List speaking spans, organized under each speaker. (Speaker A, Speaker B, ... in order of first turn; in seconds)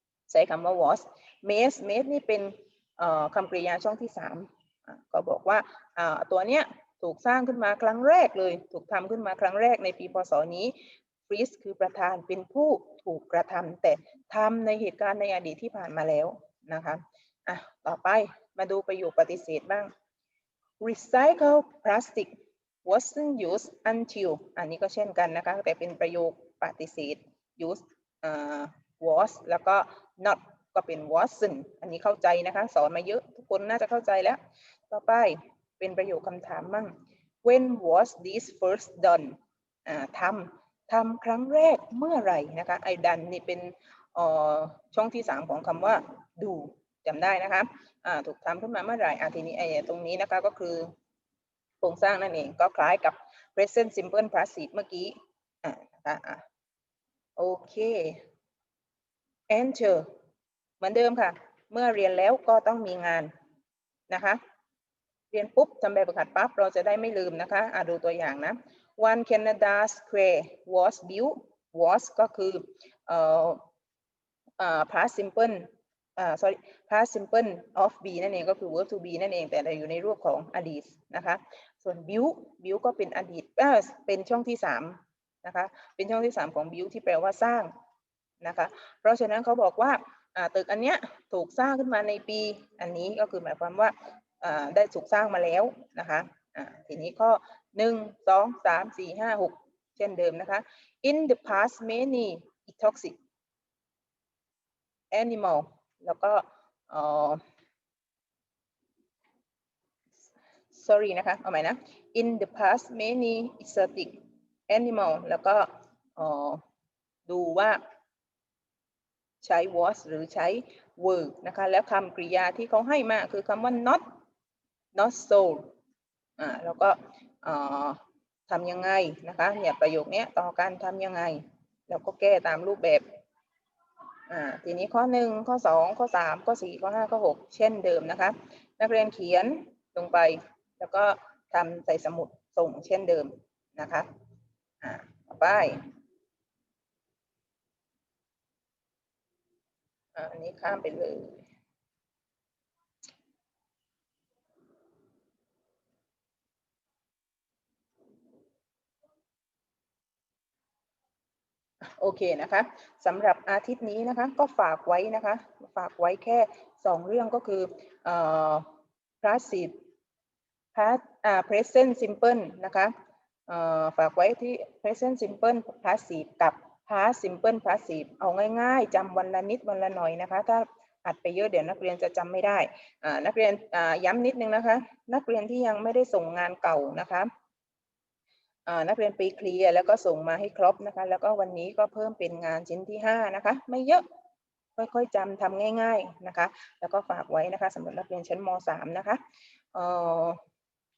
Speaker A: 0.3-10.7, 11.3-19.9, 20.8-22.3, 22.8-34.4, 34.9-39.3, 39.9-50.9, 51.8-56.4, 57.4-58.2, 59.5-60.0, 60.8-63.3, 64.1-64.4, 65.3-73.6, 74.6-87.7, 88.4-103.2, 105.1-107.4, 110.7-114.2, 114.7-116.6, 117.3-117.8, 119.4-124.0, 124.9-125.7, 126.4-133.0, 134.3-144.1, 144.8-145.8, 150.1-151.4, 162.0-168.6, 169.2-169.7, 170.7-172.9, 173.5-187.3, 188.7-194.0, 194.8-199.2, 199.7-200.4